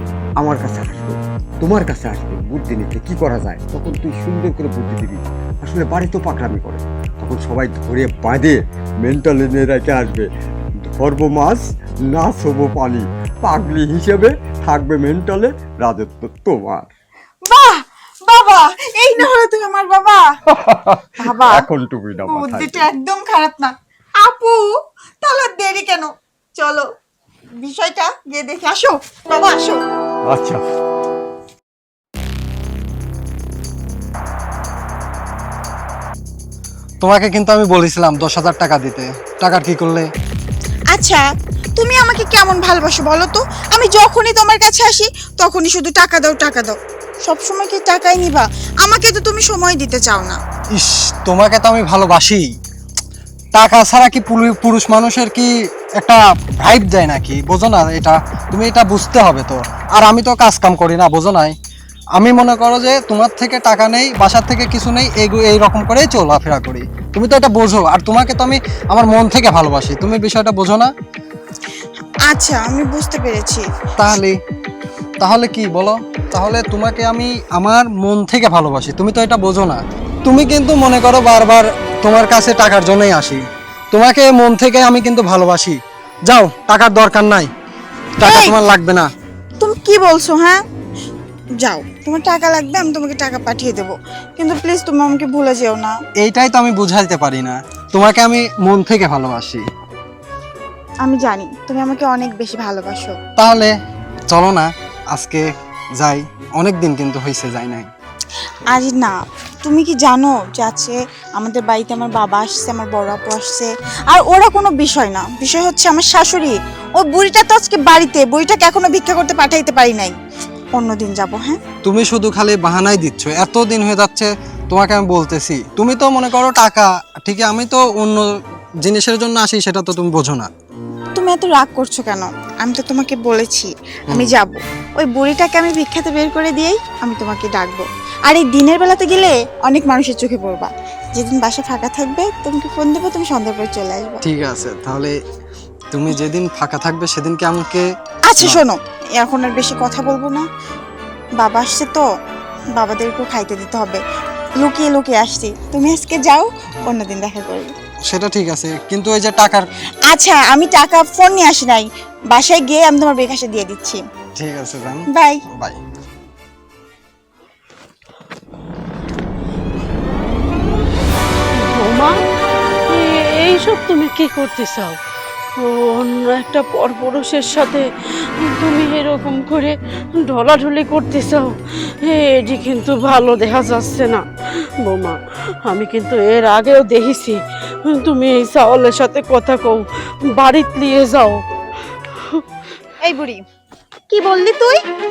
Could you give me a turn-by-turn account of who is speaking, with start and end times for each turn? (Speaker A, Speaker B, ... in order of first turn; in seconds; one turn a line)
Speaker A: 0.4-10.3
Speaker A: 10.8-16.9
Speaker B: 17.5-20.2
Speaker A: 20.6-22.8
Speaker B: 21.2-21.6
Speaker B: 22.2-24.7
Speaker B: 25.2-26.8
Speaker B: 27.6-29.8
Speaker A: 30.3-30.6
Speaker C: 37.0-40.1
Speaker B: 40.9-41.2
Speaker B: 41.8-50.4
Speaker C: 50.8-52.5
Speaker C: 53.5-55.5
Speaker C: 56.0-61.5
Speaker C: 62.2-70.9
Speaker B: 72.3-73.7
Speaker C: 74.0-74.4
Speaker C: 75.2-87.5
Speaker C: 88.2-89.1
Speaker B: 88.2-88.6
Speaker B: 89.6-90.6
Speaker B: 91.6-96.0
Speaker C: 96.2-99.6
Speaker B: 101.0-103.2
Speaker C: 103.4-103.7
Speaker C: 104.3-105.4
Speaker C: 106.0-107.9
Speaker B: 108.7-109.1
Speaker B: 109.6-120.1
Speaker B: 120.7-121.6
Speaker C: 121.8-128.3
Speaker C: 128.8-130.5
Speaker B: 131.1-144.2
Speaker C: 144.2-145.1
Speaker C: 145.9-147.8
Speaker B: 148.3-150.4
Speaker B: 151.4-152.1
Speaker B: 152.8-154.0
Speaker B: 154.6-157.7
Speaker C: 158.1-159.6
Speaker B: 160.1-164.0
Speaker C: 164.4-165.8
Speaker D: 171.7-172.1
Speaker D: 172.9-175.0
Speaker D: 175.6-177.8
Speaker D: 178.4-184.2
Speaker D: 184.8-187.4
Speaker D: 187.9-189.8
Speaker D: 190.4-191.4
Speaker B: 193.0-193.4
Speaker B: 194.1-194.8